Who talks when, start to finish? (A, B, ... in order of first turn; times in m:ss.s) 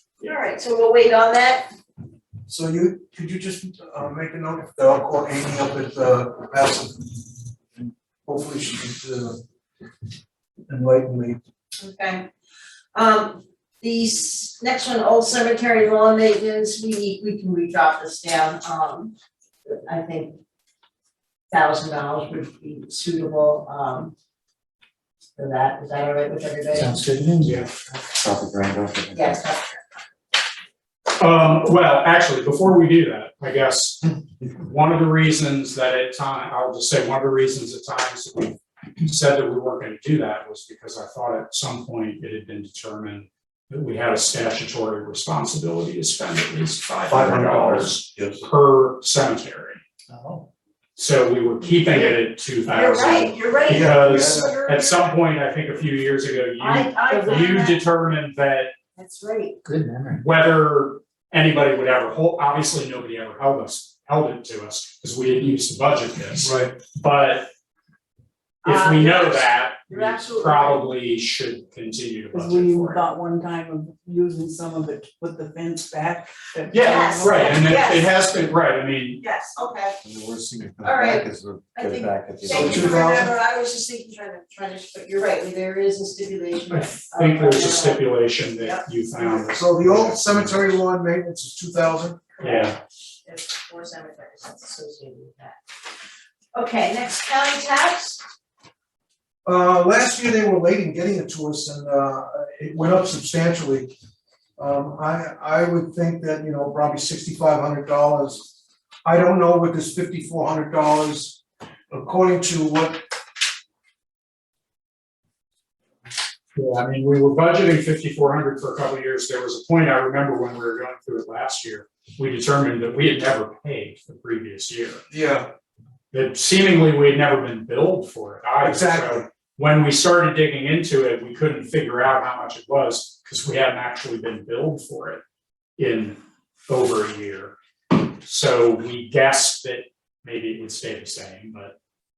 0:00.2-0:01.7 A
0:02.5-0:07.2 B
0:08.2-0:09.4 B
0:10.7-0:11.4 B
0:11.8-0:12.3 A
0:12.9-0:19.1 A
0:19.6-0:20.4 A
0:21.5-0:24.1 A
0:25.4-0:27.1 A
0:26.7-0:27.6 C
0:27.4-0:27.7 D
0:28.2-0:29.2 E
0:29.1-0:29.8 A
0:31.2-0:49.8 D
0:47.1-0:48.4 B
0:50.1-0:50.4 C
0:51.0-0:58.7 D
0:51.7-0:55.2 A
0:53.7-0:54.7 B
0:56.6-0:57.8 A
0:59.0-0:59.6 A
0:59.6-1:00.2 C
1:00.2-1:07.5 D
1:06.4-1:06.8 B
1:08.6-1:10.9 A
1:08.6-1:13.0 D
1:12.3-1:17.8 F
1:16.7-1:18.1 A
1:16.7-1:19.2 D
1:19.2-1:20.0 A
1:20.0-1:23.0 E
1:20.8-1:29.5 A
1:22.5-1:23.3 B
1:26.7-1:30.7 D
1:29.5-1:32.4 B
1:32.4-1:35.6 A
1:32.4-1:32.8 D
1:36.5-1:38.2 A
1:39.4-1:43.9 B
1:44.6-1:48.5 B
1:49.0-1:53.0 B
1:56.6-2:05.0 D
2:05.1-2:05.5 B
2:06.1-2:15.2 D
2:08.6-2:09.2 B
2:15.8-2:21.7 D